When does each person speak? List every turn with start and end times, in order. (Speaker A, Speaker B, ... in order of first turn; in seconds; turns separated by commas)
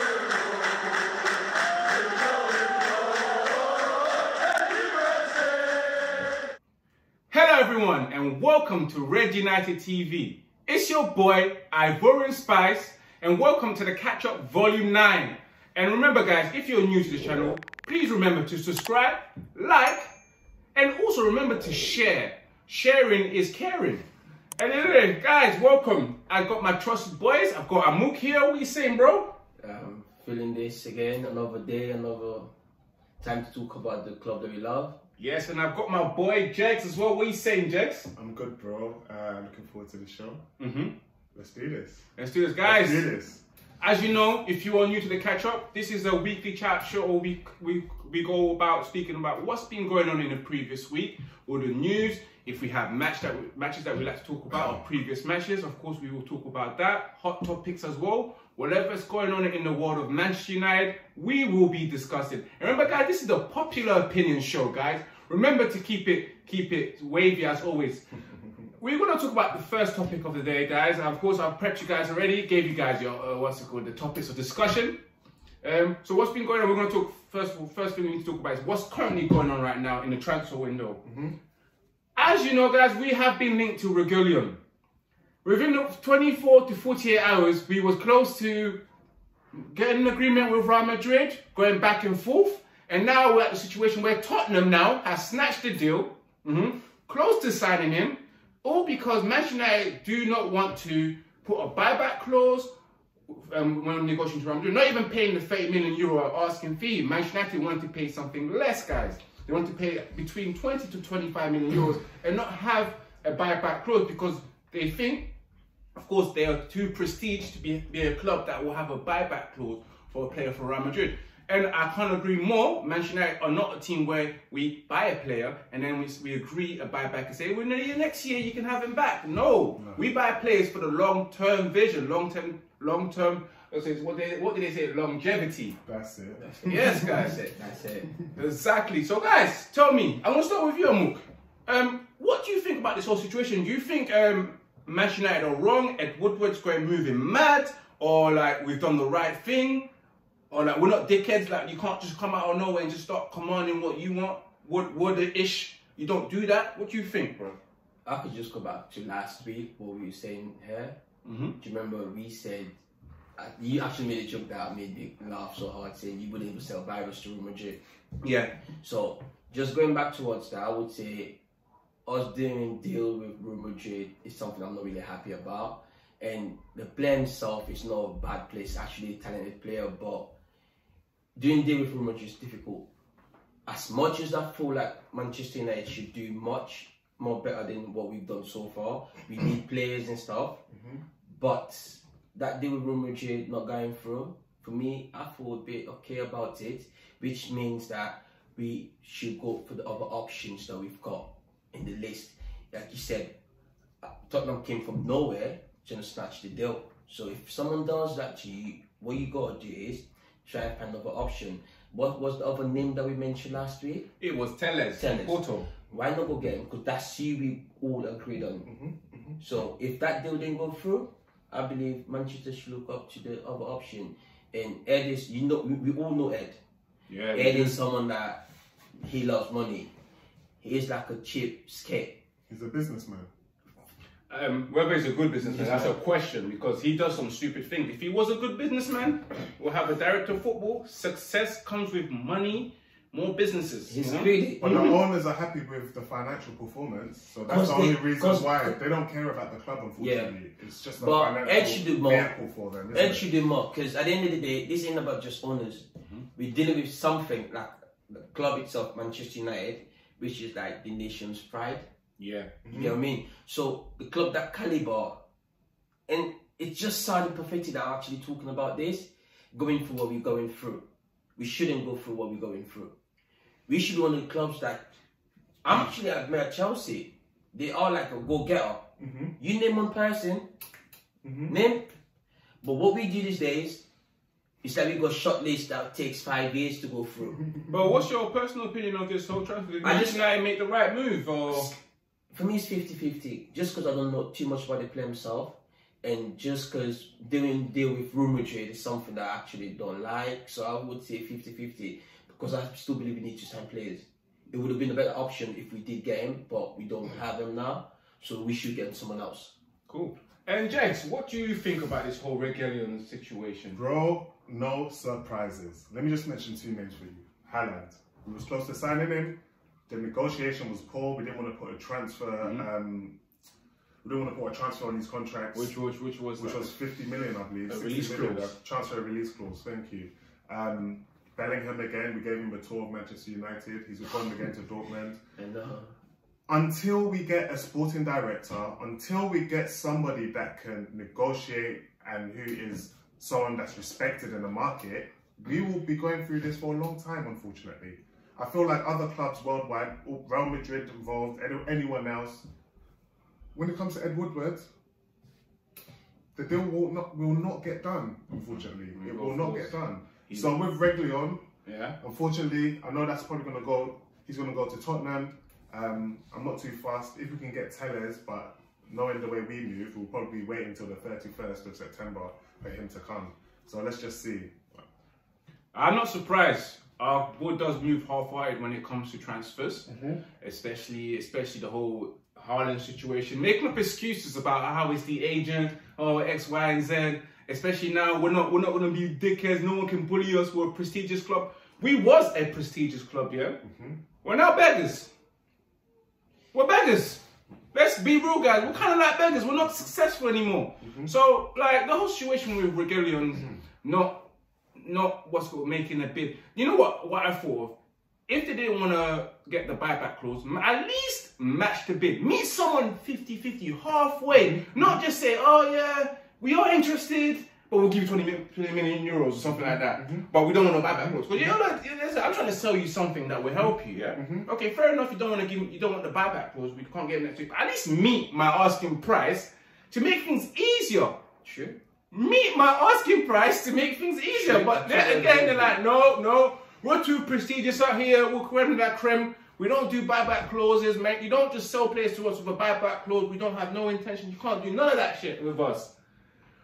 Speaker A: 7.3-20.1, Speaker A: 20.7-24.0, Speaker A: 24.6-29.4, Speaker B: 29.6-32.5, Speaker B: 33.2-35.0, Speaker A: 35.2-38.1, Speaker C: 38.1-40.4, Speaker A: 40.6-40.9, Speaker C: 41.3-42.0, Speaker A: 42.2-43.0, Speaker C: 42.6-43.4, Speaker A: 43.8-68.1, Speaker A: 68.8-74.9, Speaker A: 75.6-81.0, Speaker C: 81.0-81.3, Speaker A: 82.2-84.6, Speaker A: 85.4-88.8, Speaker A: 89.5-102.7, Speaker A: 103.3-115.3, Speaker A: 115.9-135.8, Speaker C: 135.8-137.3, Speaker B: 136.4-138.1, Speaker A: 136.7-137.4, Speaker A: 138.3-149.9, Speaker A: 150.5-157.6, Speaker B: 158.1-160.9, Speaker A: 161.2-161.6, Speaker B: 161.6-162.7, Speaker B: 163.4-167.8, Speaker A: 168.2-168.5, Speaker B: 168.8-171.4, Speaker B: 172.1-180.3, Speaker B: 181.3-182.8, Speaker B: 183.7-190.6, Speaker C: 190.7-191.0, Speaker B: 191.3-203.3, Speaker B: 204.0-214.1, Speaker A: 214.2-215.7, Speaker B: 214.9-218.7, Speaker C: 218.7-219.3, Speaker B: 219.4-226.6, Speaker A: 227.1-227.8, Speaker B: 227.3-228.4, Speaker B: 229.0-229.9, Speaker B: 230.6-232.2, Speaker C: 232.5-233.3, Speaker A: 234.3-244.7, Speaker C: 235.4-235.9, Speaker B: 243.9-244.9, Speaker C: 244.6-253.3, Speaker B: 247.5-248.8, Speaker B: 250.0-250.3, Speaker B: 251.0-252.3, Speaker B: 252.9-261.9, Speaker A: 262.2-262.5, Speaker C: 262.6-262.9, Speaker B: 262.7-265.2, Speaker B: 266.1-270.8, Speaker B: 271.4-272.9, Speaker B: 273.7-274.9, Speaker B: 275.6-278.8, Speaker C: 279.0-279.3, Speaker B: 279.4-280.5, Speaker C: 281.2-281.5, Speaker B: 281.5-281.9, Speaker B: 282.6-283.8, Speaker B: 284.6-287.4, Speaker C: 287.5-287.9, Speaker A: 287.7-291.7, Speaker B: 289.8-290.2, Speaker B: 292.3-309.5, Speaker A: 309.9-313.8, Speaker C: 313.7-323.1, Speaker C: 324.0-325.7, Speaker A: 325.5-326.7, Speaker C: 326.4-335.2, Speaker A: 327.7-328.5, Speaker B: 335.4-335.9, Speaker C: 336.5-352.4, Speaker C: 353.5-354.7, Speaker C: 356.3-361.4, Speaker A: 358.9-360.5, Speaker A: 361.6-361.9, Speaker C: 362.0-374.6, Speaker A: 375.7-379.9, Speaker C: 379.9-380.2, Speaker A: 380.4-393.6, Speaker C: 393.6-394.0, Speaker A: 394.2-395.1, Speaker A: 396.5-397.2, Speaker A: 397.7-404.2, Speaker C: 400.8-401.1, Speaker A: 404.8-407.7, Speaker A: 408.3-431.2, Speaker C: 414.3-415.0, Speaker C: 419.4-421.5, Speaker C: 424.1-424.5, Speaker B: 431.4-431.8, Speaker A: 432.1-445.9, Speaker B: 434.4-435.8